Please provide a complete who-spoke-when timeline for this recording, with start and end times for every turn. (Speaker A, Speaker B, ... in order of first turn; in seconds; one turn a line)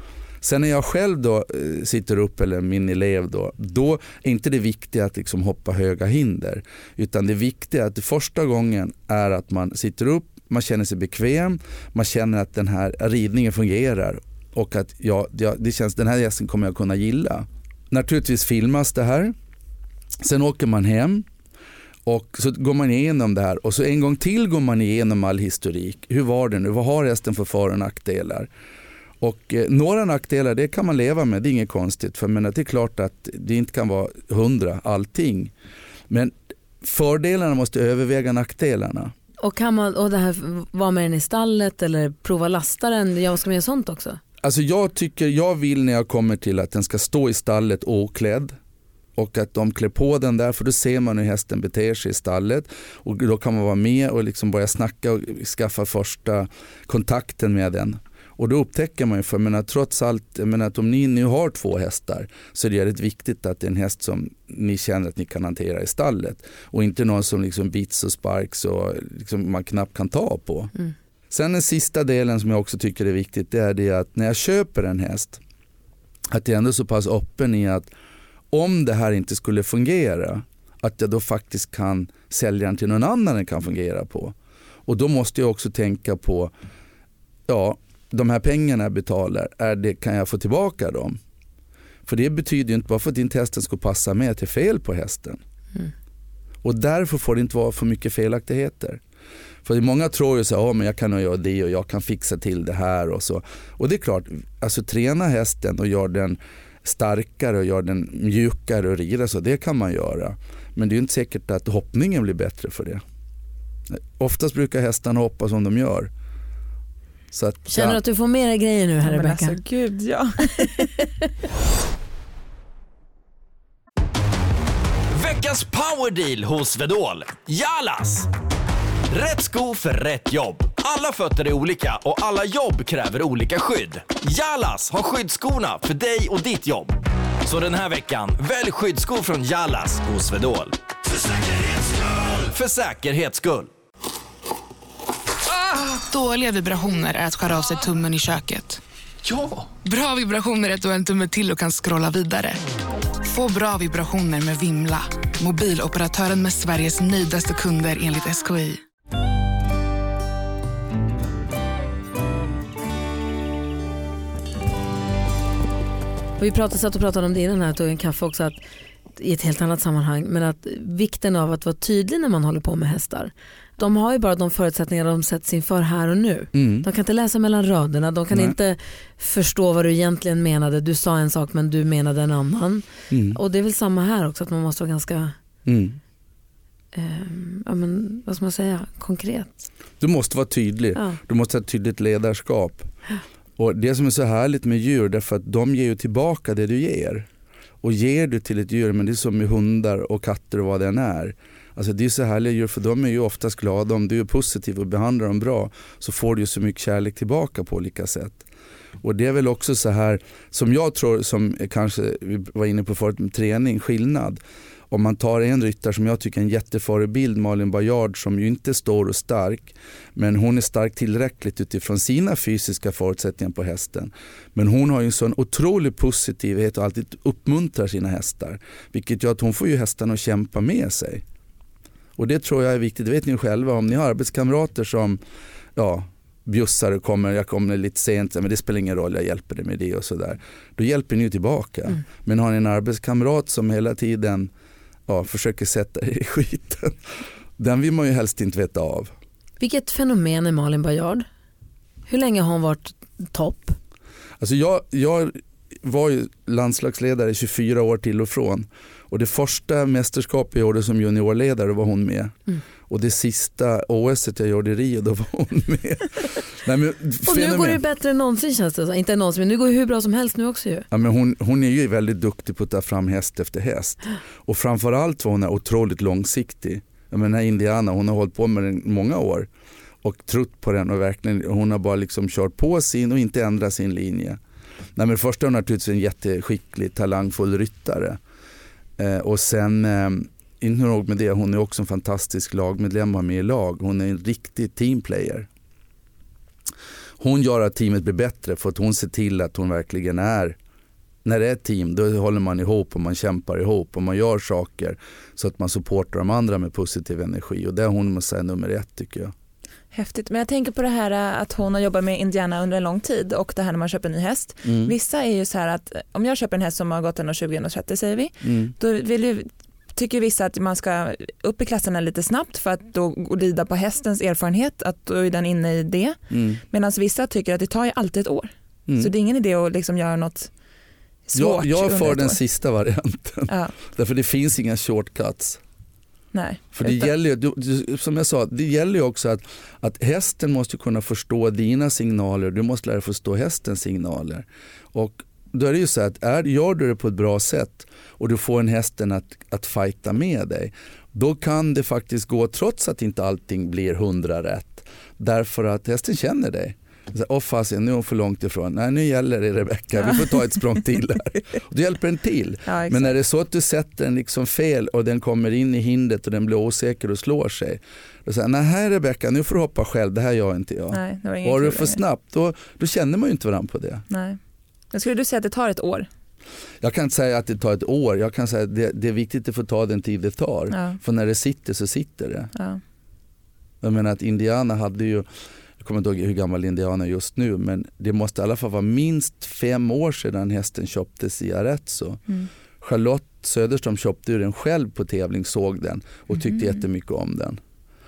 Speaker A: 0.4-19.3
Speaker A: 20.2-21.3
Speaker A: 22.1-28.5
Speaker A: 29.2-35.5
Speaker A: 36.1-39.1
Speaker B: 39.4-44.2
Speaker A: 44.4-48.6
Speaker A: 49.1-70.7
Speaker A: 71.3-75.4
Speaker A: 76.3-77.9
Speaker A: 78.5-84.3
Speaker A: 84.8-86.5
Speaker A: 87.5-91.2
Speaker A: 92.0-95.4
Speaker A: 96.6-99.0
Speaker A: 99.6-113.0
Speaker A: 113.9-116.1
Speaker A: 117.3-118.0
Speaker B: 117.7-119.6
Speaker C: 119.0-121.0
Speaker D: 125.1-128.3
Speaker D: 129.1-143.7
Speaker E: 145.5-152.6
Speaker E: 153.2-158.8
Speaker B: 166.4-168.6
Speaker B: 169.2-185.3
Speaker A: 176.5-176.8
Speaker A: 183.1-183.4
Speaker A: 185.7-186.0
Speaker B: 186.9-189.7
Speaker A: 190.0-192.9
Speaker A: 193.6-197.3
Speaker A: 197.8-208.4
Speaker A: 209.0-231.2
Speaker A: 232.2-235.2
Speaker A: 235.7-244.5
Speaker A: 245.1-247.0
Speaker A: 247.6-249.1
Speaker B: 249.6-251.2
Speaker B: 252.1-253.8
Speaker A: 254.4-267.8
Speaker B: 267.2-270.9
Speaker A: 270.9-279.5
Speaker A: 280.0-284.4
Speaker A: 284.9-288.2
Speaker A: 289.0-295.5
Speaker A: 297.2-300.6
Speaker A: 301.2-309.3
Speaker C: 309.9-330.5
Speaker A: 314.6-314.9
Speaker A: 318.4-318.7
Speaker A: 326.3-326.6
Speaker C: 331.3-332.4
Speaker A: 331.3-335.6
Speaker C: 333.5-333.8
Speaker C: 336.3-337.1
Speaker A: 336.7-374.0
Speaker C: 360.0-360.4
Speaker C: 362.7-363.1
Speaker C: 370.9-372.0
Speaker C: 374.1-374.4
Speaker C: 374.9-376.1
Speaker A: 376.8-382.5
Speaker C: 380.7-381.0
Speaker C: 382.5-382.8
Speaker A: 383.8-385.3
Speaker A: 385.8-392.2
Speaker A: 392.8-397.6